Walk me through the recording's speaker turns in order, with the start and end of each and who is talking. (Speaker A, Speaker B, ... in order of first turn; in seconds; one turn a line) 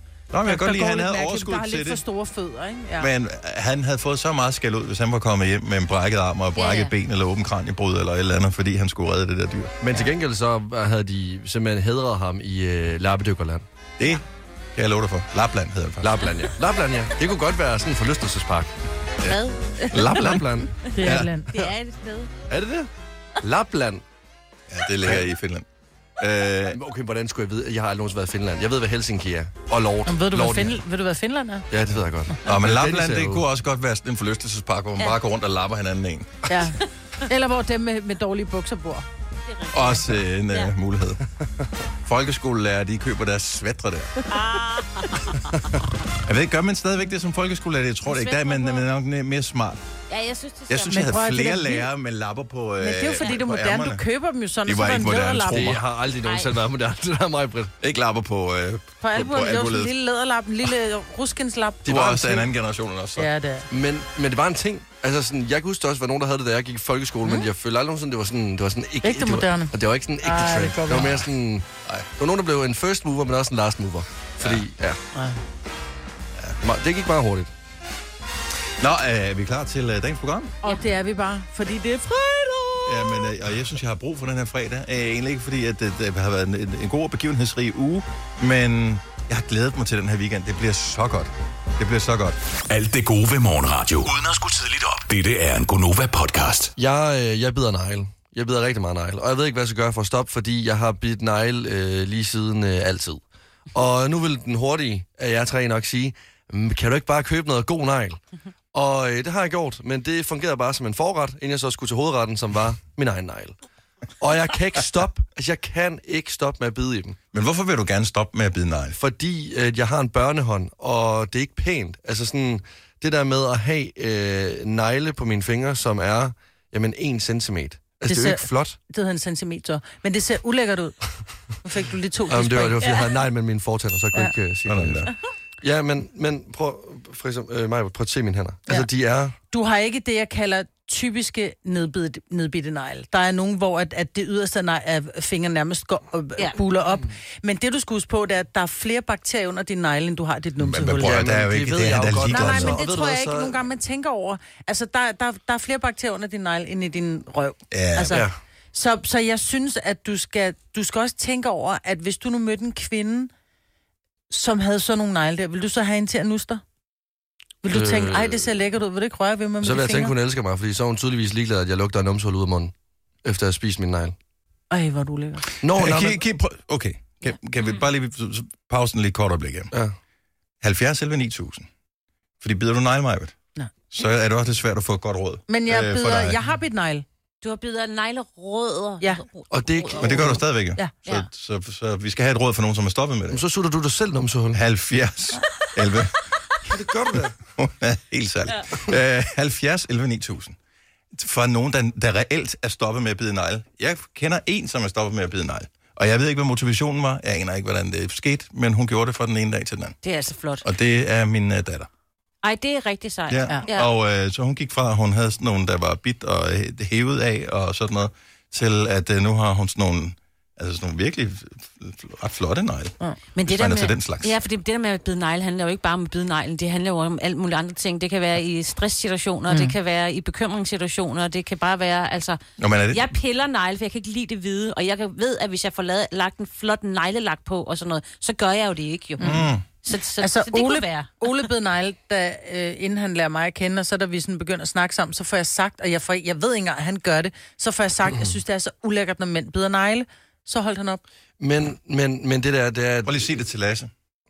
Speaker A: 0.3-2.0
Speaker B: 0.4-3.1
Speaker A: 3.0-9.9
Speaker C: 6.6-6.9
Speaker D: 9.8-13.7
Speaker A: 14.8-16.3
Speaker D: 16.0-18.7
Speaker A: 19.2-21.3
Speaker C: 19.2-22.3
Speaker D: 20.2-20.7
Speaker B: 20.9-21.5
Speaker D: 22.5-22.9
Speaker D: 23.4-24.0
Speaker A: 24.7-25.7
Speaker A: 26.2-26.8
Speaker D: 26.7-30.8
Speaker B: 30.1-31.6
Speaker D: 31.7-33.4
Speaker A: 32.4-36.5
Speaker B: 36.5-39.1
Speaker C: 39.5-40.7
Speaker A: 39.7-41.2
Speaker A: 42.0-44.3
Speaker C: 44.3-45.5
Speaker A: 46.2-49.8
Speaker C: 48.1-48.9
Speaker C: 50.1-51.0
Speaker A: 50.7-54.0
Speaker B: 50.9-51.9
Speaker B: 52.8-55.7
Speaker A: 54.6-55.8
Speaker D: 55.5-57.7
Speaker C: 56.2-56.5
Speaker A: 57.8-60.0
Speaker B: 59.0-62.5
Speaker D: 61.9-62.2
Speaker A: 61.9-63.3
Speaker B: 63.2-63.7
Speaker D: 63.7-71.7
Speaker B: 69.0-71.2
Speaker D: 72.2-75.0
Speaker D: 76.6-77.5
Speaker A: 78.8-80.5
Speaker B: 80.6-83.3
Speaker A: 82.9-92.4
Speaker E: 92.7-96.7
Speaker D: 96.8-103.2
Speaker D: 103.7-108.2
Speaker D: 108.7-113.6
Speaker D: 114.2-117.2
Speaker A: 117.3-119.0
Speaker D: 119.0-128.8
Speaker B: 128.1-131.1
Speaker B: 131.6-132.9
Speaker D: 132.3-135.1
Speaker A: 134.7-135.1
Speaker D: 135.6-139.3
Speaker B: 139.5-151.2
Speaker A: 150.6-152.8
Speaker D: 151.0-153.6
Speaker B: 152.3-163.3
Speaker A: 157.7-158.2
Speaker D: 158.1-158.4
Speaker B: 164.3-166.6
Speaker B: 167.6-170.1
Speaker D: 167.7-168.5
Speaker D: 169.6-172.7
Speaker D: 173.2-174.2
Speaker B: 174.7-175.5
Speaker D: 175.6-176.2
Speaker A: 175.8-179.7
Speaker A: 180.6-181.7
Speaker A: 182.4-183.4
Speaker A: 183.9-186.4
Speaker B: 185.5-187.1
Speaker C: 187.4-190.3
Speaker D: 189.5-190.4
Speaker A: 190.0-193.4
Speaker D: 193.3-194.6
Speaker A: 194.5-196.1
Speaker D: 196.7-197.3
Speaker A: 197.6-200.6
Speaker A: 201.1-210.0
Speaker C: 210.0-210.7
Speaker A: 210.6-211.9
Speaker C: 212.4-213.9
Speaker A: 213.3-222.9
Speaker C: 223.3-241.5
Speaker A: 223.4-224.4
Speaker A: 232.6-233.1
Speaker B: 239.2-239.5
Speaker A: 239.2-239.6
Speaker B: 240.2-251.0
Speaker D: 248.1-248.4
Speaker D: 251.4-253.3
Speaker A: 253.1-253.9